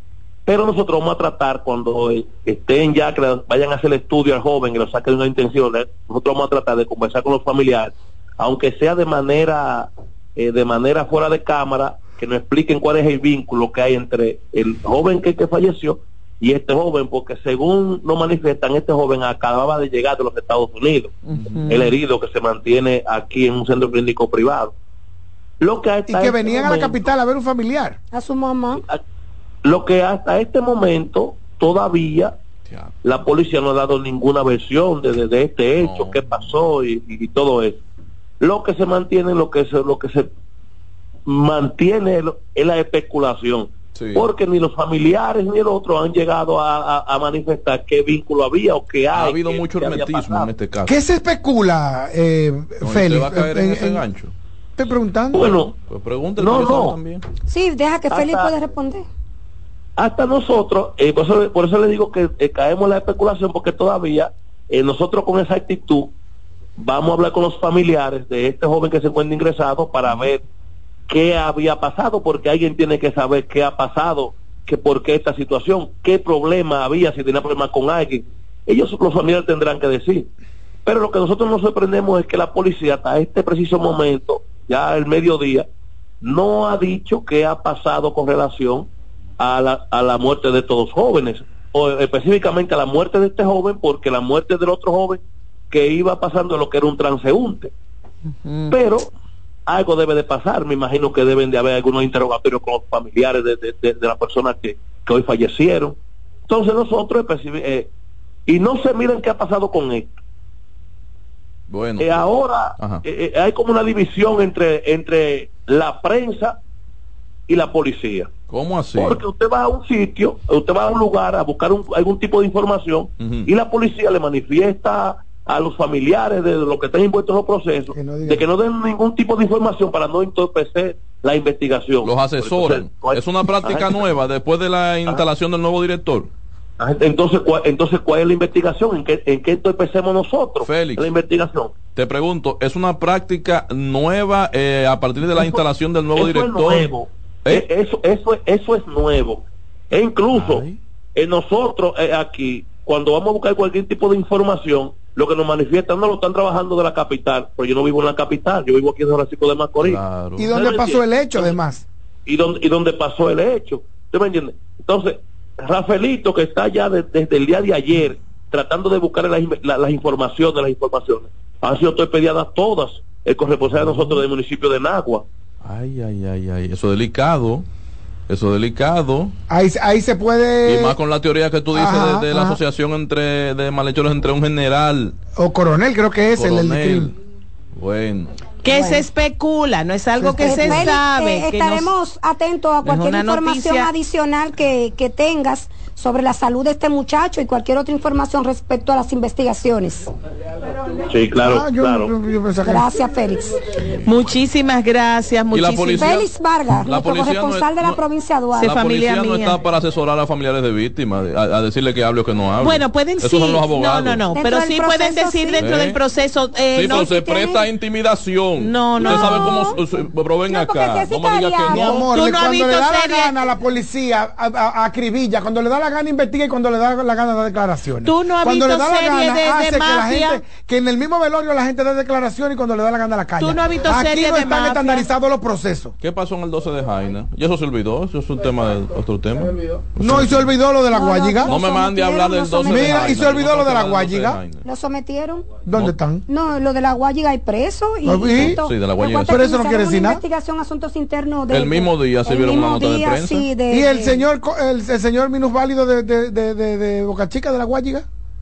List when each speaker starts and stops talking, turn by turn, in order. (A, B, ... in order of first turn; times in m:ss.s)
0:00.4-0:21.1 A
0:21.2-0:21.9 B
0:21.7-0:24.7 A
0:25.6-0:27.0 A
0:26.1-0:28.0 C
0:28.1-0:28.8 D
0:28.7-0:29.0 A
0:29.6-0:32.3 A
0:33.0-0:37.8 A
0:35.8-0:36.5 E
0:38.4-0:40.3 A
0:41.2-0:50.5 A
0:43.9-0:44.3 E
0:49.1-0:51.0 E
0:50.9-0:54.0 C
0:52.8-0:54.3 E
0:54.8-0:55.5 C
0:55.3-0:55.7 A
0:55.8-0:57.2 E
0:56.4-0:57.0 A
0:57.5-0:59.0 D
0:58.1-0:58.5 A
1:00.0-1:06.1 A
1:06.8-1:10.4 A
1:11.1-1:20.3 A
1:20.8-1:25.7 A
1:26.2-1:37.7 A
1:38.4-1:38.8 B
1:38.7-1:39.1 A
1:39.7-1:46.0 A
1:46.5-1:47.9 A
1:48.5-1:50.1 A
1:51.7-1:52.2 E
1:52.0-1:56.6 A
1:52.8-1:53.0 E
1:57.5-1:58.3 A
1:58.5-1:59.2 E
1:59.0-2:14.0 A
2:03.2-2:03.5 E
2:07.9-2:08.4 C
2:12.0-2:16.3 E
2:16.8-2:21.7 A
2:20.6-2:21.1 E
2:21.9-2:26.9 E
2:26.2-2:40.0 A
2:30.3-2:30.8 E
2:39.8-2:40.5 E
2:40.4-2:41.8 C
2:40.5-2:41.6 A
2:42.2-2:55.2 A
2:53.7-2:54.2 E
2:55.6-2:57.6 E
2:58.3-2:59.3 E
2:59.5-3:01.0 C
3:00.6-3:05.1 E
3:01.7-3:02.6 C
3:05.4-3:07.1 C
3:06.3-3:07.1 E
3:07.7-3:08.3 E
3:08.6-3:11.9 B
3:08.7-3:09.0 D
3:10.2-3:10.9 C
3:10.4-3:20.1 D
3:12.8-3:13.9 B
3:21.1-3:22.1 A
3:21.4-3:22.9 C
3:22.6-3:23.6 D
3:24.0-3:26.2 B
3:25.5-3:26.2 E
3:26.0-3:28.7 D
3:26.8-3:28.0 E
3:28.6-3:34.2 E
3:28.6-3:29.6 B
3:32.6-3:37.2 B
3:34.3-3:35.6 D
3:35.6-3:36.0 E
3:36.7-3:42.0 E
3:36.9-3:37.6 D
3:38.6-3:39.7 B
3:39.0-3:39.8 D
3:40.5-3:42.0 D
3:41.7-3:55.9 C
3:41.9-3:43.4 B
3:48.0-3:50.4 B
3:53.4-3:55.1 B
3:56.0-4:00.5 E
4:00.0-4:01.6 C
4:00.9-4:03.2 D
4:01.4-4:04.6 E
4:02.6-4:04.4 C
4:04.6-4:05.6 D
4:05.6-4:06.2 C
4:06.3-4:14.2 D
4:08.0-4:08.6 C
4:08.3-4:09.4 E
4:09.2-4:10.2 C
4:11.5-4:13.5 E
4:13.7-4:18.0 C